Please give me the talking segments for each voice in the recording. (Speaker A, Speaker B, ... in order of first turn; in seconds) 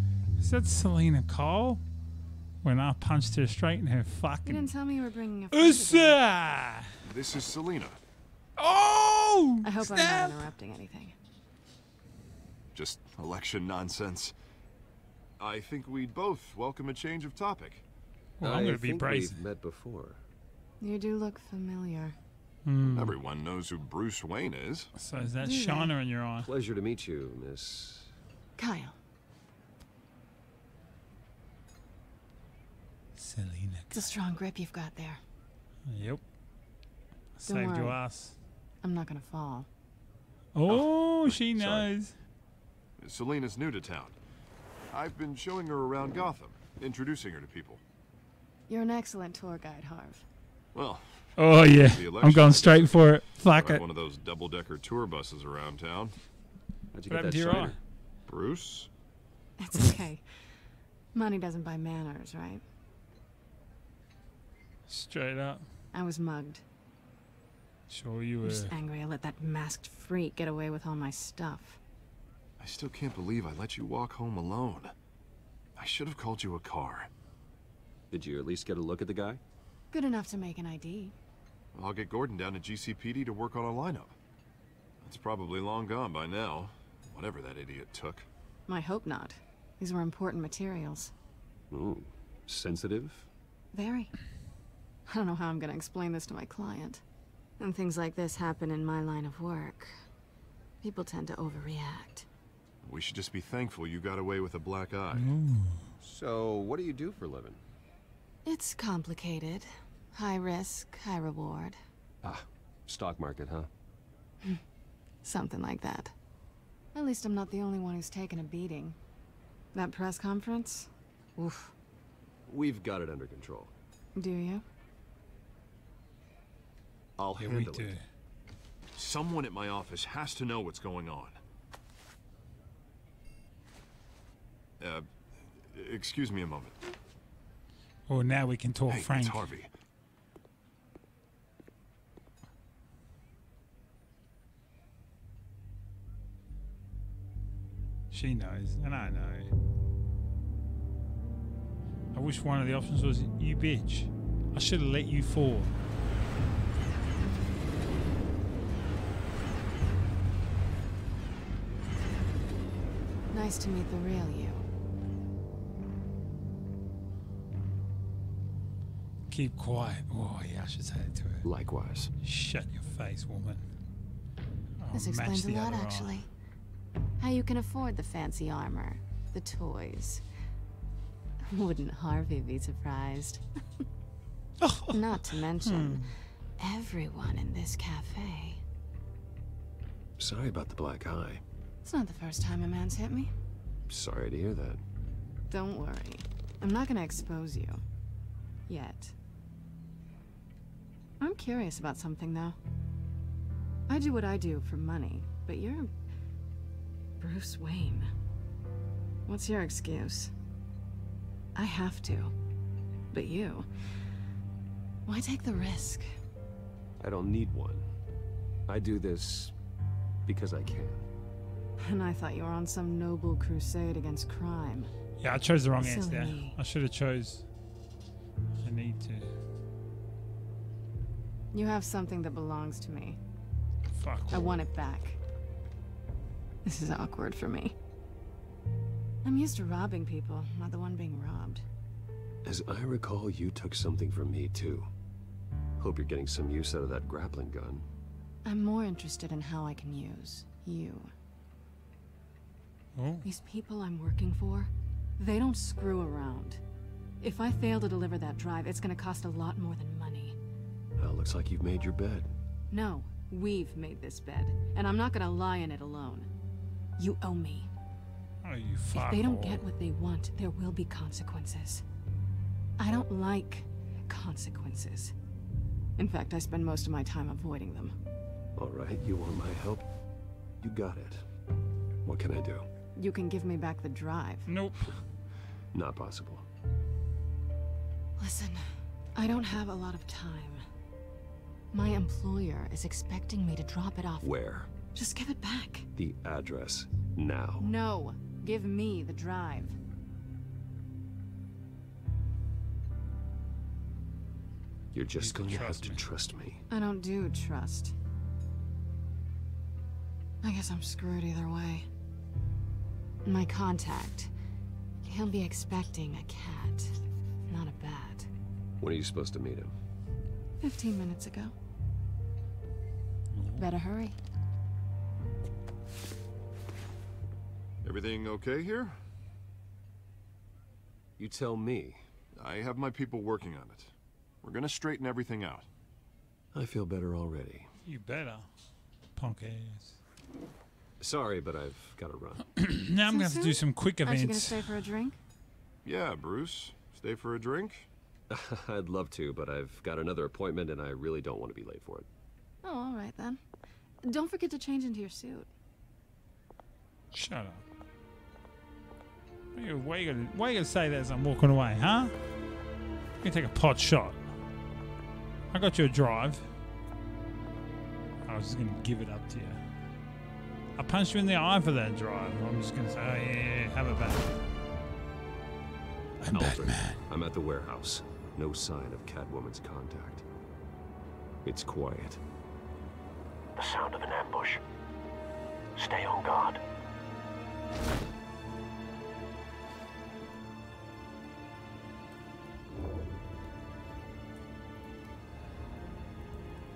Speaker A: 0.4-1.8, 2.6-4.8, 5.5-6.9, 8.6-10.5, 18.4-19.4, 22.7-23.2, 25.0-26.5, 33.2-34.1, 35.9-36.2, 37.4-38.4, 40.5-42.1, 51.4-53.9, 57.1-57.8, 59.7-60.0, 64.9-65.7, 67.9-68.8, 105.1-105.9, 127.4-128.0, 138.1-139.5, 148.1-149.5, 152.1-155.8, 169.3-171.5, 172.2-173.6, 174.8-176.2, 184.6-186.1, 225.2-227.5, 228.6-229.3, 233.9-234.5, 253.0-253.3, 268.4-269.6, 284.5-285.0, 305.2-306.0, 323.3-323.7, 337.8-338.5, 339.2-340.0, 342.6-344.7, 357.1-357.6, 359.5-362.1, 363.2-364.3, 365.5-366.5, 368.3-369.6, 370.8-374.4, 376.2-377.0
Speaker B: 4.5-6.2, 9.6-11.2, 20.8-22.2, 25.4-25.9, 28.6-28.9, 33.9-35.2, 37.5-38.0, 38.8-39.7, 48.7-50.2, 59.6-60.2, 61.1-62.6, 65.9-66.6, 68.4-71.8, 79.9-81.2, 88.7-91.1, 93.7-94.1, 95.1-97.0, 97.6-100.0, 100.8-102.3, 108.5-111.8, 115.2-116.1, 117.0-119.0, 119.7-121.7, 124.2-124.6, 163.3-164.6, 174.9-176.3, 177.2-180.2, 181.5-183.4, 184.9-186.1, 186.6-188.6, 191.8-193.3, 195.5-197.8, 198.7-199.2, 201.2-202.6, 203.9-205.9, 207.2-208.1, 209.3-210.3, 211.6-212.3, 213.1-213.7, 215.1-216.1, 221.8-224.9, 225.8-226.6, 231.5-233.2, 234.3-235.2, 236.7-237.8, 239.2-241.6, 248.4-251.1, 253.2-256.6, 257.2-260.4, 262.7-266.3, 267.0-267.7, 268.9-271.8, 272.8-275.1, 276.0-277.9, 283.0-284.5, 288.2-290.6, 291.7-294.3, 294.9-295.9, 297.6-299.8, 306.7-307.9, 310.4-311.9, 313.2-314.3, 315.0-317.0, 317.5-318.3, 320.6-321.5, 323.6-324.2, 343.1-345.2, 352.6-353.4, 354.1-355.5
Speaker C: 7.0-8.0, 12.7-14.3, 15.4-17.9, 22.8-24.9, 40.7-41.9, 43.0-44.2, 44.9-47.8, 50.7-56.1, 58.3-58.9, 72.6-74.9, 75.8-77.1, 81.7-84.2, 85.0-88.3, 102.8-105.4, 127.2-127.9, 129.0-131.4, 134.8-136.8, 138.9-139.7, 327.8-329.0, 332.4-335.7, 345.9-347.9
Speaker D: 18.4-20.2, 26.4-28.1, 56.9-57.8, 78.1-79.4, 91.7-93.3, 106.0-107.6, 112.2-113.7, 122.5-123.7, 171.4-172.1, 190.2-191.4, 193.9-194.8, 217.0-217.9, 218.7-219.6, 220.3-221.0, 242.4-244.9, 245.8-247.9, 261.0-262.3, 278.6-279.9, 280.6-281.3, 282.1-282.7, 285.7-286.5, 294.2-294.7, 296.0-297.7, 304.9-306.6, 318.8-319.7, 331.2-332.0, 336.5-337.7, 341.0-342.5, 348.3-352.1, 376.3-380.2, 381.4-382.2
Speaker E: 383.6-384.6, 385.8-386.6